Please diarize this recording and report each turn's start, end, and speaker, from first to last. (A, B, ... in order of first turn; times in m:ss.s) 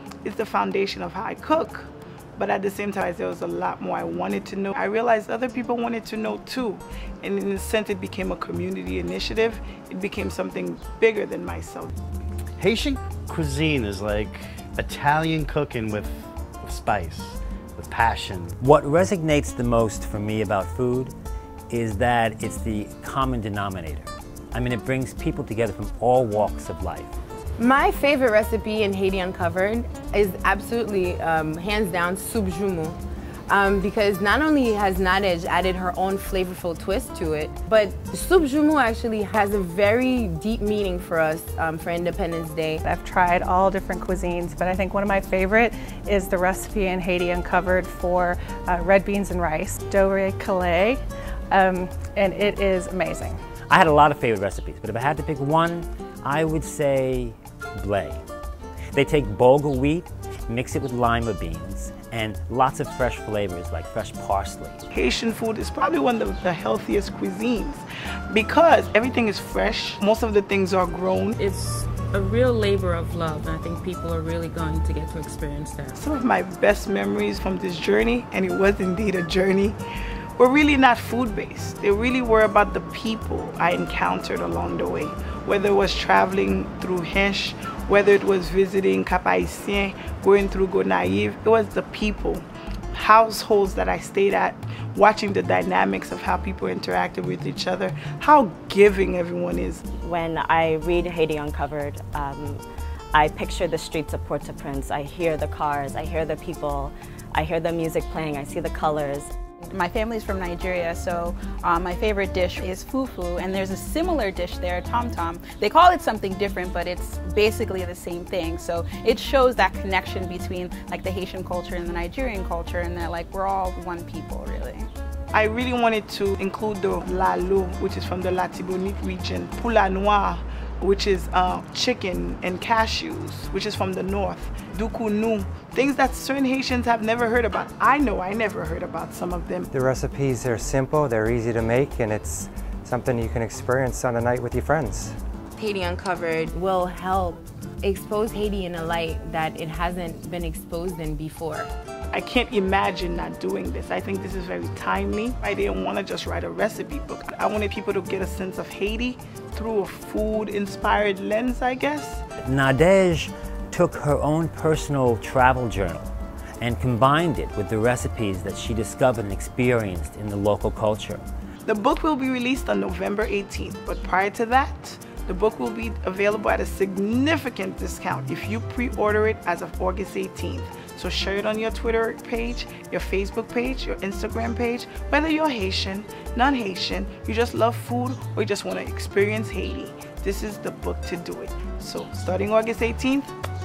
0:00.2-0:11.9 A
0:12.6-0:18.6 B
0:18.6-0:21.1 C
0:21.7-0:27.1 C
0:27.6-0:33.0 D
0:33.5-0:42.8 D
0:42.8-0:51.0 E
0:51.5-0:53.4 E
0:53.7-0:58.2 C
0:58.9-1:04.8 C
1:04.9-1:11.4 A
1:11.4-1:16.0 F
1:16.0-1:19.8 A
1:20.4-1:39.8 A
1:40.0-1:42.6 G
1:43.1-1:49.3 G
1:49.7-2:04.9 H
2:05.3-2:19.7 A
2:19.7-2:25.1 I
2:25.6-2:31.7 D
2:32.1-2:42.2 A
2:42.4-2:51.2 C
2:51.6-3:13.3 A